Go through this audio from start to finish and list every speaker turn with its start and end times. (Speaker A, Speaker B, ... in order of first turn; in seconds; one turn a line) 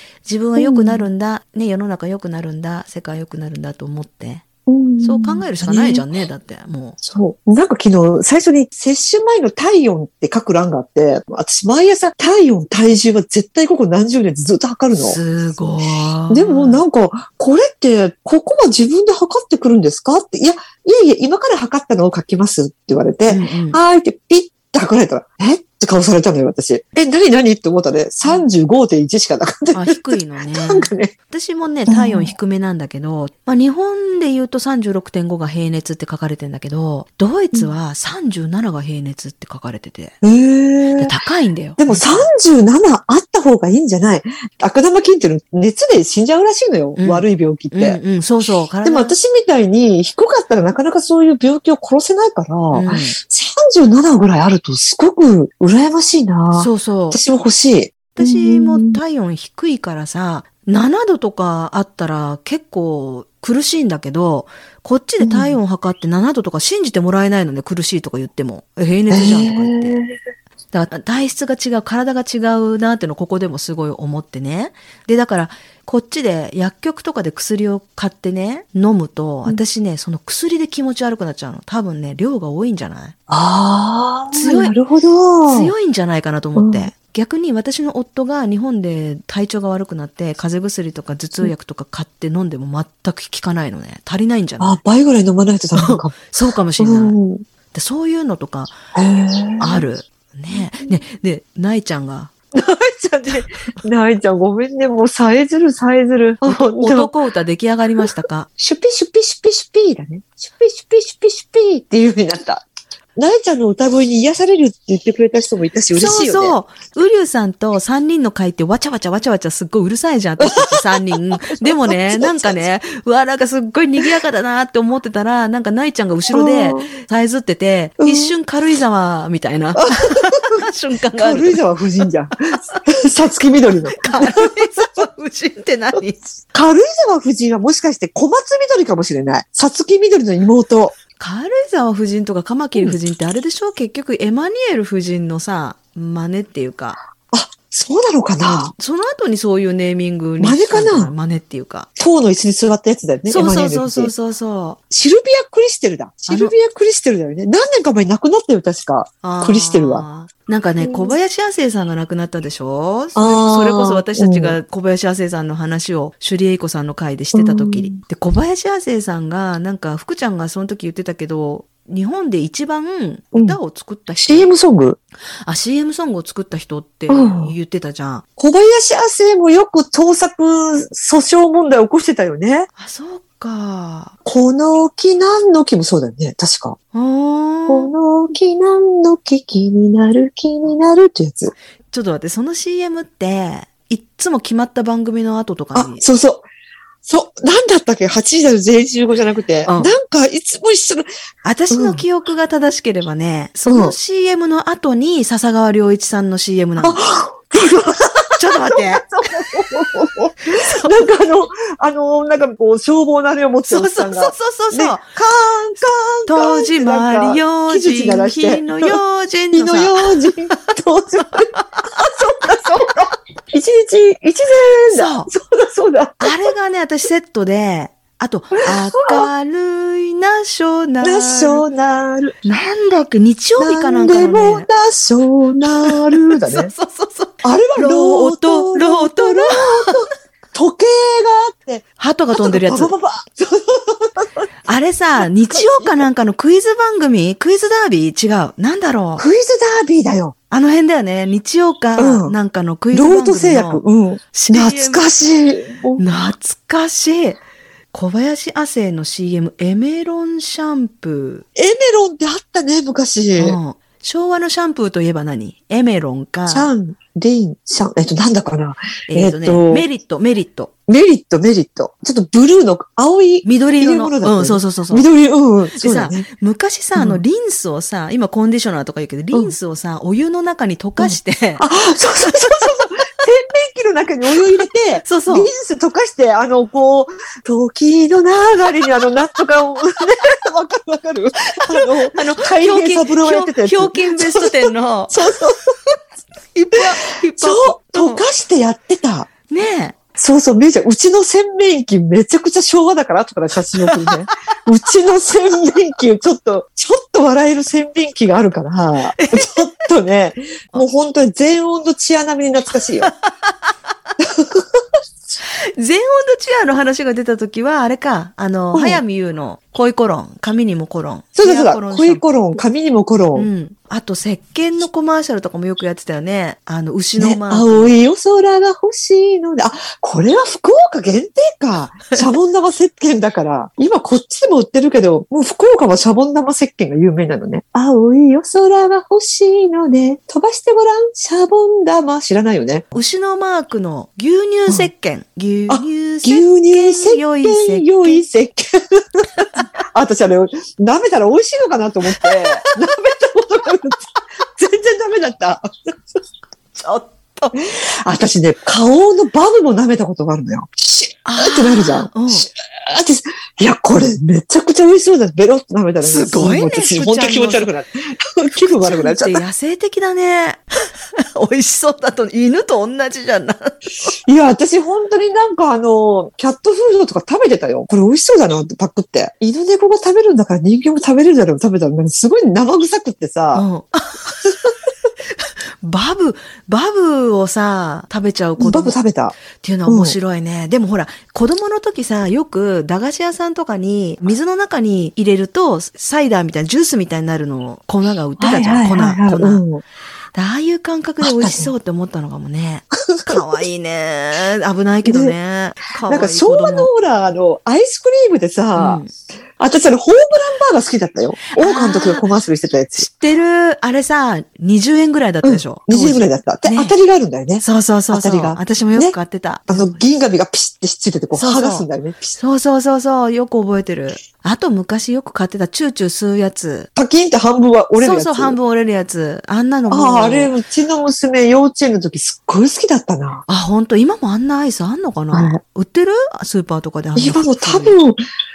Speaker A: 0.2-4.5
Speaker B: 0.6-1.1
Speaker B: 4.7-6.0
Speaker A: 5.0-7.0
Speaker B: 7.0-15.2
Speaker A: 14.9-16.8
Speaker B: 16.3-31.1
Speaker A: 23.3-23.8
Speaker A: 29.7-40.1
Speaker B: 31.9-32.3
Speaker B: 40.2-41.1
Speaker A: 41.0-42.3
Speaker B: 41.8-48.0
Speaker A: 47.0-49.1
Speaker B: 48.8-59.0
Speaker A: 52.7-53.1
Speaker A: 56.5-57.2
Speaker A: 58.1-70.0
Speaker B: 65.2-65.6
Speaker B: 69.1-70.1
Speaker A: 70.7-83.1
Speaker B: 83.3-85.7
Speaker A: 84.3-84.8
Speaker A: 85.5-94.8
Speaker B: 86.6-86.9
Speaker B: 94.6-96.2
Speaker A: 95.8-97.1
Speaker B: 96.8-97.4
Speaker A: 97.7-98.8
Speaker B: 98.9-99.9
Speaker A: 99.6-102.3
Speaker B: 100.5-101.0
Speaker B: 102.5-107.1
Speaker A: 106.4-108.5
Speaker B: 108.6-112.6
Speaker B: 113.2-116.6
Speaker A: 115.9-131.6
Speaker B: 120.4-122.7
Speaker B: 126.3-126.9
Speaker B: 128.0-128.3
Speaker B: 129.8-130.6
Speaker B: 131.2-135.0
Speaker A: 132.5-132.8
Speaker A: 133.9-136.3
Speaker B: 136.5-141.0
Speaker A: 141.2-147.0
Speaker B: 147.3-148.7
Speaker A: 148.5-151.9
Speaker B: 150.4-151.1
Speaker B: 152.0-154.1
Speaker A: 153.3-154.8
Speaker B: 154.9-160.0
Speaker A: 156.3-156.5
Speaker A: 159.2-174.5
Speaker B: 160.8-161.2
Speaker B: 163.1-164.6
Speaker B: 167.3-168.0
Speaker B: 173.3-173.6
Speaker B: 174.2-175.0
Speaker A: 175.4-178.2
Speaker B: 177.1-177.5
Speaker B: 178.4-182.7
Speaker A: 182.8-184.2
Speaker B: 184.2-186.8
Speaker A: 186.9-187.9
Speaker B: 187.7-191.5
Speaker A: 191.9-196.0
Speaker B: 195.8-196.5
Speaker B: 197.0-201.1
Speaker A: 199.7-199.9
Speaker A: 201.4-207.0
Speaker B: 201.7-202.0
Speaker B: 203.7-203.9
Speaker B: 206.8-219.0
Speaker A: 208.3-209.7
Speaker A: 210.5-210.9
Speaker A: 213.7-215.1
Speaker A: 216.3-220.6
Speaker B: 219.5-226.5
Speaker A: 221.3-221.9
Speaker A: 224.9-225.3
Speaker A: 226.2-231.6
Speaker B: 228.6-229.2
Speaker B: 231.0-232.3
Speaker A: 232.4-234.7
Speaker B: 233.6-236.7
Speaker A: 235.8-240.1
Speaker B: 237.4-244.5
Speaker A: 242.0-242.9
Speaker A: 244.7-249.2
Speaker B: 245.5-246.0
Speaker B: 249.2-250.3
Speaker A: 250.5-255.1
Speaker B: 252.0-252.4
Speaker B: 252.9-256.0
Speaker A: 256.0-257.4
Speaker A: 257.9-261.4
Speaker B: 261.5-263.6
Speaker A: 263.4-266.7
Speaker B: 266.5-269.9
Speaker A: 269.1-270.7
Speaker B: 270.9-276.2
Speaker A: 273.4-275.1
Speaker A: 275.8-281.6
Speaker B: 277.0-277.2
Speaker B: 281.0-295.6
Speaker A: 282.2-282.7
Speaker A: 285.0-285.5
Speaker A: 291.6-295.3
Speaker A: 296.5-298.2
Speaker B: 297.4-299.3
Speaker A: 299.5-300.0
Speaker B: 300.1-313.1
Speaker A: 303.8-304.2
Speaker A: 309.1-309.6
Speaker A: 312.8-313.7
Speaker B: 314.2-314.8
Speaker A: 315.4-322.2
Speaker B: 318.7-319.0
Speaker B: 321.4-323.5
Speaker A: 323.4-328.0
Speaker B: 327.2-342.9
Speaker A: 342.9-348.2
Speaker B: 345.7-355.7
Speaker A: 352.1-352.7
Speaker A: 356.8-357.6
Speaker B: 357.7-369.4
Speaker A: 361.2-362.5
Speaker A: 366.0-367.7
Speaker A: 368.8-370.6
Speaker A: 371.2-374.1
Speaker B: 374.2-383.6
Speaker A: 383.5-384.6
Speaker A: 385.3-389.0
Speaker B: 388.6-390.2
Speaker A: 389.5-399.6
Speaker B: 398.4-399.8
Speaker A: 400.4-406.9
Speaker B: 401.2-401.7
Speaker B: 403.1-403.6
Speaker B: 405.0-405.4
Speaker B: 406.0-409.0
Speaker A: 408.8-409.1
Speaker B: 409.6-413.1
Speaker A: 411.5-412.2
Speaker A: 413.0-416.9
Speaker B: 415.4-419.1
Speaker A: 417.6-420.0
Speaker B: 419.7-422.4
Speaker A: 421.4-426.9
Speaker B: 427.0-428.6
Speaker A: 428.0-430.5
Speaker B: 429.9-433.4
Speaker A: 433.5-438.0
Speaker B: 435.3-435.6
Speaker B: 437.1-438.2